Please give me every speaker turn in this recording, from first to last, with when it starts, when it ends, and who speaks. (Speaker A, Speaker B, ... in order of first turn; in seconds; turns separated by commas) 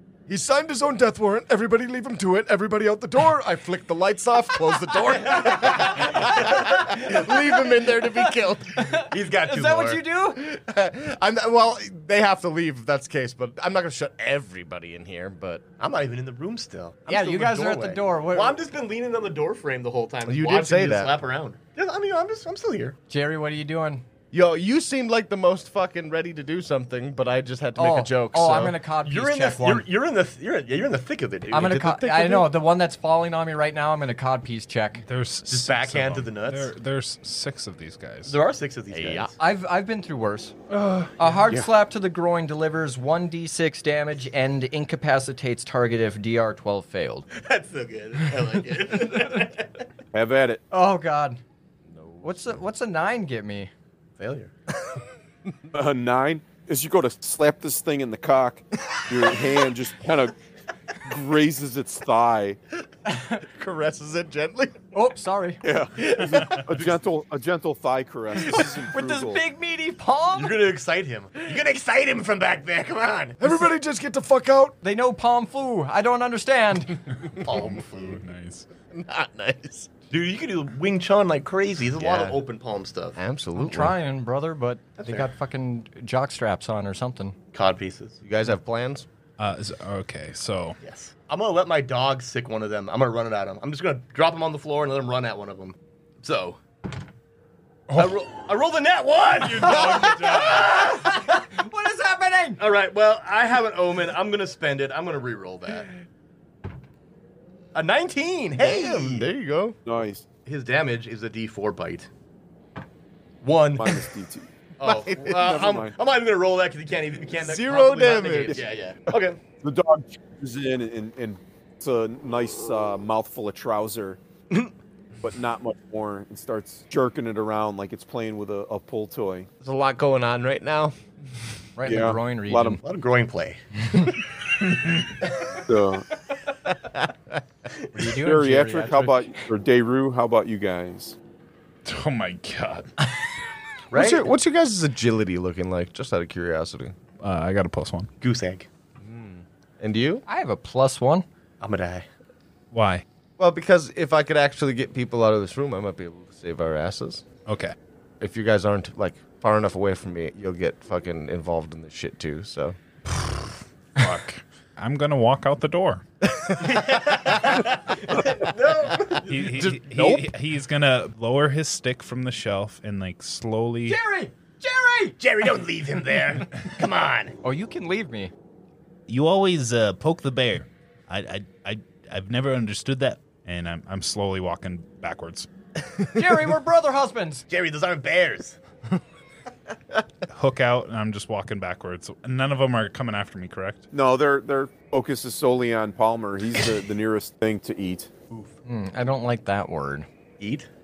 Speaker A: 0.3-3.8, Speaker B: 3.6-8.9, Speaker C: 5.3-6.6, Speaker D: 6.6-10.4, Speaker C: 8.9-10.0, Speaker B: 10.4-15.6, Speaker C: 15.8-22.9, Speaker D: 17.1-18.6, Speaker B: 20.3-21.1, Speaker D: 23.1-24.0, Speaker B: 24.3-28.8, Speaker D: 27.8-29.9, Speaker C: 29.0-32.5, Speaker D: 31.5-35.0, Speaker E: 35.0-38.4, Speaker C: 35.5-36.7, Speaker C: 38.3-39.3, Speaker B: 38.9-39.3, Speaker D: 39.4-40.5, Speaker E: 40.7-41.3, Speaker D: 41.2-47.2, Speaker C: 47.3-49.7, Speaker F: 50.1-50.6, Speaker D: 50.7-51.4, Speaker B: 51.9-52.6, Speaker D: 52.2-53.7, Speaker C: 54.2-54.5, Speaker F: 55.7-60.3, Speaker F: 61.0-62.6, Speaker B: 63.4-64.8, Speaker D: 64.9-65.6, Speaker F: 65.6-69.4, Speaker B: 66.2-66.6, Speaker E: 66.3-66.6, Speaker D: 68.3-70.6, Speaker C: 70.3-73.4, Speaker A: 73.4-74.7, Speaker D: 74.8-77.0, Speaker E: 77.2-78.7, Speaker C: 77.4-78.2, Speaker B: 78.9-79.9, Speaker C: 80.1-83.2, Speaker B: 82.0-82.4, Speaker B: 83.2-84.0, Speaker D: 83.5-87.3, Speaker C: 85.0-85.3, Speaker C: 87.5-88.2, Speaker B: 88.2-89.1, Speaker E: 89.4-90.8, Speaker C: 90.8-96.6, Speaker C: 97.9-101.0, Speaker E: 99.4-100.7, Speaker D: 99.6-102.6, Speaker C: 102.6-105.9, Speaker C: 107.7-109.3, Speaker B: 108.6-109.8, Speaker F: 109.8-110.2, Speaker C: 110.5-112.1, Speaker C: 113.4-114.1, Speaker F: 113.8-114.5, Speaker C: 114.8-119.4, Speaker B: 114.8-115.6, Speaker F: 115.2-116.0, Speaker B: 117.3-118.6, Speaker F: 118.5-124.2, Speaker F: 125.2-129.5, Speaker B: 129.6-130.9, Speaker D: 131.8-132.8, Speaker F: 131.8-132.8, Speaker C: 132.8-133.9, Speaker F: 135.5-136.1, Speaker B: 136.9-137.4, Speaker D: 137.9-139.3, Speaker F: 138.1-141.2, Speaker E: 141.8-142.9, Speaker C: 143.9-144.3, Speaker B: 143.9-146.9, Speaker E: 147.2-148.1, Speaker C: 148.2-148.7, Speaker B: 149.0-150.2, Speaker D: 150.3-151.2, Speaker C: 151.6-152.1, Speaker E: 152.7-153.0, Speaker B: 153.4-157.2, Speaker E: 157.4-157.7, Speaker B: 158.2-162.8, Speaker E: 163.1-163.4, Speaker E: 163.9-166.0, Speaker B: 166.4-167.6, Speaker C: 166.6-169.4, Speaker B: 168.1-168.5, Speaker E: 169.2-174.0, Speaker B: 169.4-170.2, Speaker D: 173.8-175.2, Speaker C: 175.2-177.3, Speaker D: 177.4-178.3, Speaker E: 179.1-185.5, Speaker D: 186.1-187.4, Speaker C: 187.5-188.6, Speaker E: 190.3-193.9, Speaker F: 193.9-198.1, Speaker D: 198.6-200.1, Speaker C: 200.4-200.7